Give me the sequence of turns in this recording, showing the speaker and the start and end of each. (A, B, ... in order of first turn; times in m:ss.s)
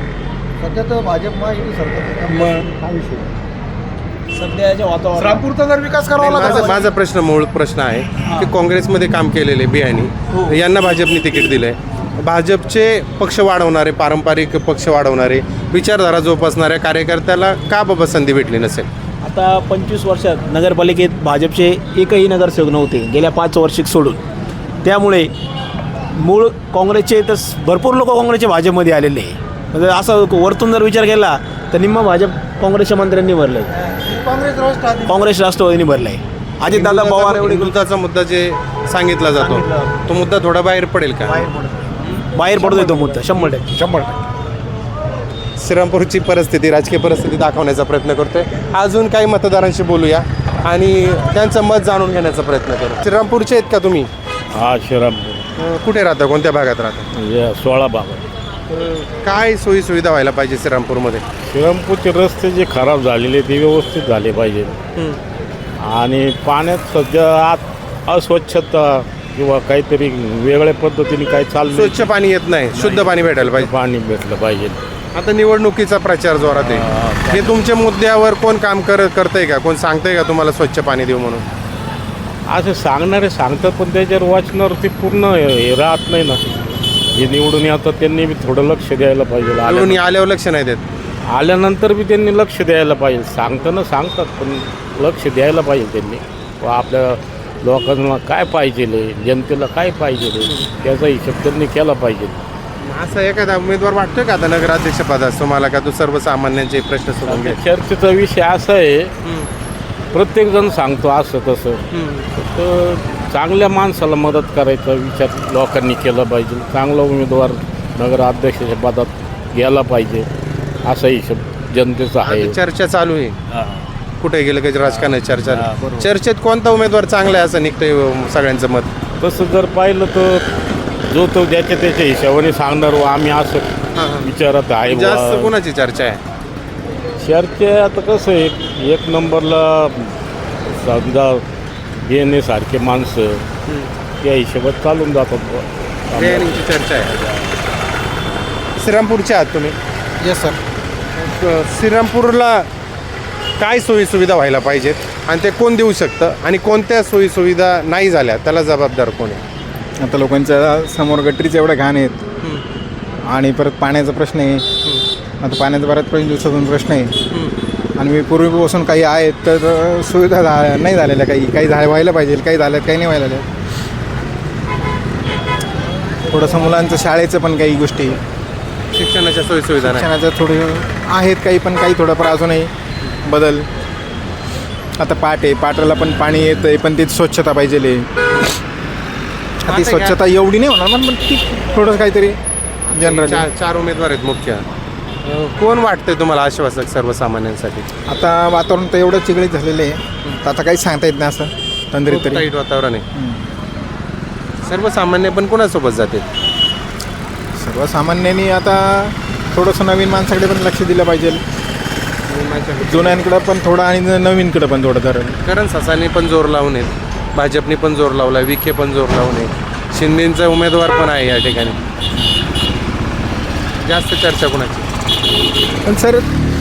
0:00.6-0:03.2 A
0:02.3-0:02.7 B
0:04.3-0:05.4 C
0:05.2-0:06.8 B
0:06.2-0:06.9 A
0:06.2-0:18.9 D
0:19.2-0:24.2 C
0:24.8-0:25.3 C
0:26.2-0:33.7 C
0:35.0-0:37.8 C
0:36.7-0:41.5 D
0:39.3-0:39.9 C
0:41.2-0:41.7 C
0:42.3-0:43.7 C
0:42.6-0:44.1 B
0:45.6-0:54.1 D
0:54.5-0:55.5 E
0:55.6-0:57.1 D
0:57.2-0:58.2 E
0:58.7-1:01.2 D
1:01.4-1:04.8 E
1:05.8-1:12.1 E
1:11.7-1:13.7 D
1:12.7-1:14.8 E
1:15.1-1:21.4 D
1:16.5-1:17.6 E
1:22.5-1:26.4 E
1:27.1-1:30.0 E
1:29.6-1:30.8 D
1:31.3-1:42.4 E
1:42.8-1:47.6 D
1:47.2-1:49.1 E
1:49.2-1:49.5 D
1:50.1-1:51.8 E
1:51.9-1:52.3 D
1:52.4-2:00.3 E
2:00.8-2:02.6 E
2:02.2-2:03.4 D
2:04.2-2:08.9 D
2:04.9-2:06.0 E
2:09.2-2:10.4 E
2:11.1-2:13.7 E
2:14.0-2:14.3 D
2:14.2-2:15.5 E
2:14.8-2:16.2 D
2:17.2-2:20.1 E
2:20.7-2:21.4 E
2:22.0-2:23.4 E
2:24.2-2:27.5 E
2:26.1-2:27.1 D
2:28.8-2:29.8 D
2:30.2-2:30.6 F
2:31.2-2:32.7 D
2:33.6-2:39.4 D
2:40.0-2:42.2 F
2:43.3-2:44.6 F
2:45.4-2:47.2 F
2:48.0-2:53.5 F
2:56.3-2:58.2 F
2:58.9-3:00.1 D
2:59.8-3:02.7 F
3:03.2-3:03.6 F
3:05.0-3:08.0 F
3:09.6-3:12.4 F
3:09.7-3:10.2 D
3:12.9-3:14.6 D
3:12.9-3:13.5 F
3:15.2-3:17.9 D
3:18.1-3:22.5 F
3:22.1-3:23.0 D
3:23.1-3:23.4 F
3:24.6-3:26.3 D
3:27.6-3:31.4 F
3:32.3-3:33.3 D
3:32.8-3:35.4 F
3:35.4-3:41.8 D
3:43.8-3:44.9 D
3:45.8-3:46.2 F